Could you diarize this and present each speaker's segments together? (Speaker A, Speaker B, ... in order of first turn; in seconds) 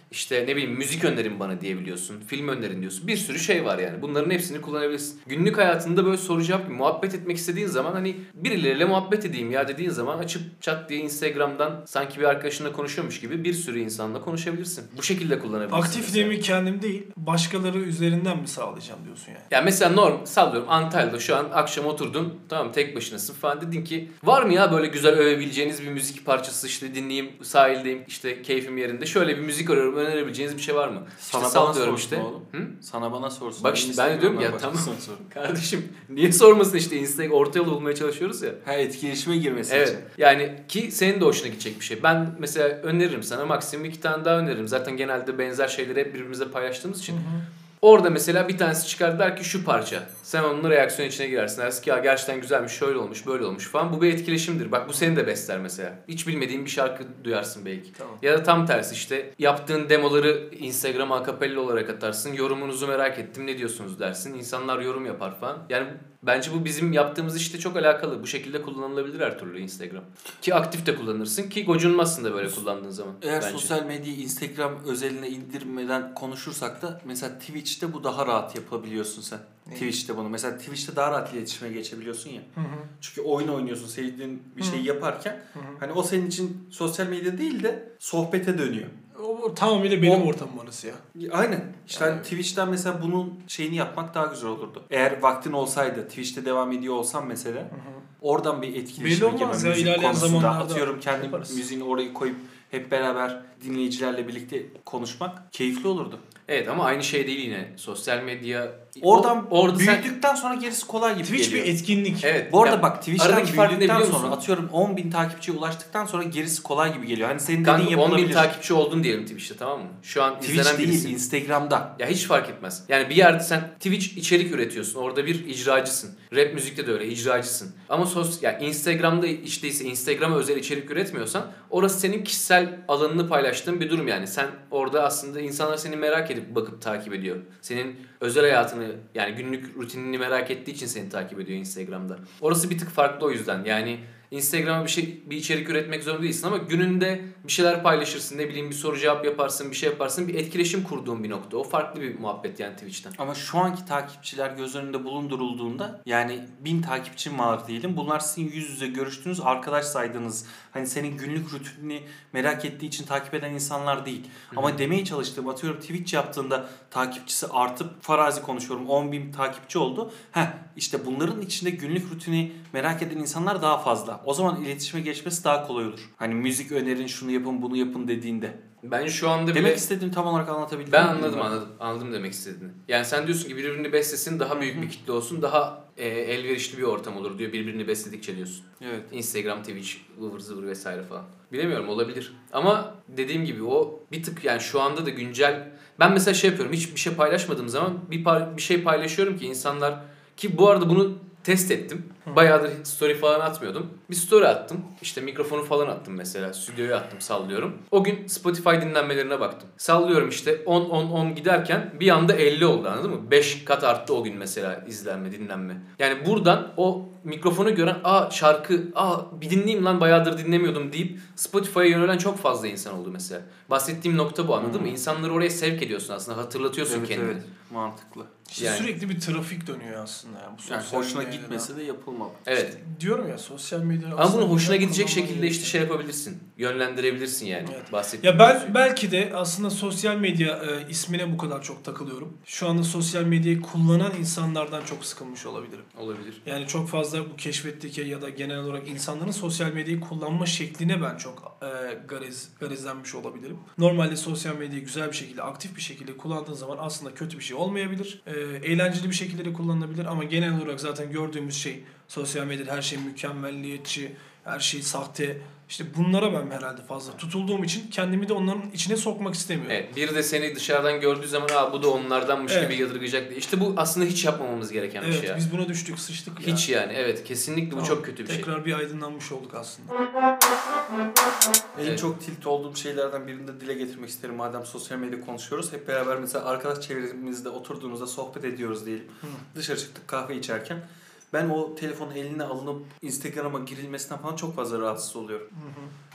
Speaker A: 0.1-16.3, 19.5-32.7, 33.6-38.6, 39.7-47.2, 47.8-73.7, 106.5-110.1, 112.2-114.4, 117.6-121.2, 122.0-153.1, 164.5-164.8, 178.8-179.8, 180.9-227.4, 228.6-228.9, 232.4-232.8, 234.2-238.8, 245.9-246.4, 269.7-275.4, 276.4-278.5
Speaker B: 15.7-19.5, 47.1-47.4, 58.0-58.2, 79.7-79.9, 82.5-82.9, 84.6-84.8, 85.5-85.8, 89.1-91.0, 91.9-92.3, 97.7-98.0, 99.0-101.6, 111.2-112.3, 228.5-231.7, 232.5-235.8, 237.6-245.9, 246.4-269.8, 272.5-272.8, 275.0-276.7, 277.7-279.9, 295.5-295.9
Speaker C: 31.2-35.2, 38.6-40.0, 73.2-82.5, 83.0-88.9, 90.0-90.3, 91.1-106.2, 109.0-111.7, 112.5-118.5, 120.4-121.9, 153.1-178.6, 179.5-181.6, 184.5-184.9, 188.8-189.1, 224.6-225.0, 226.8-228.3, 230.7-232.5, 281.7-295.5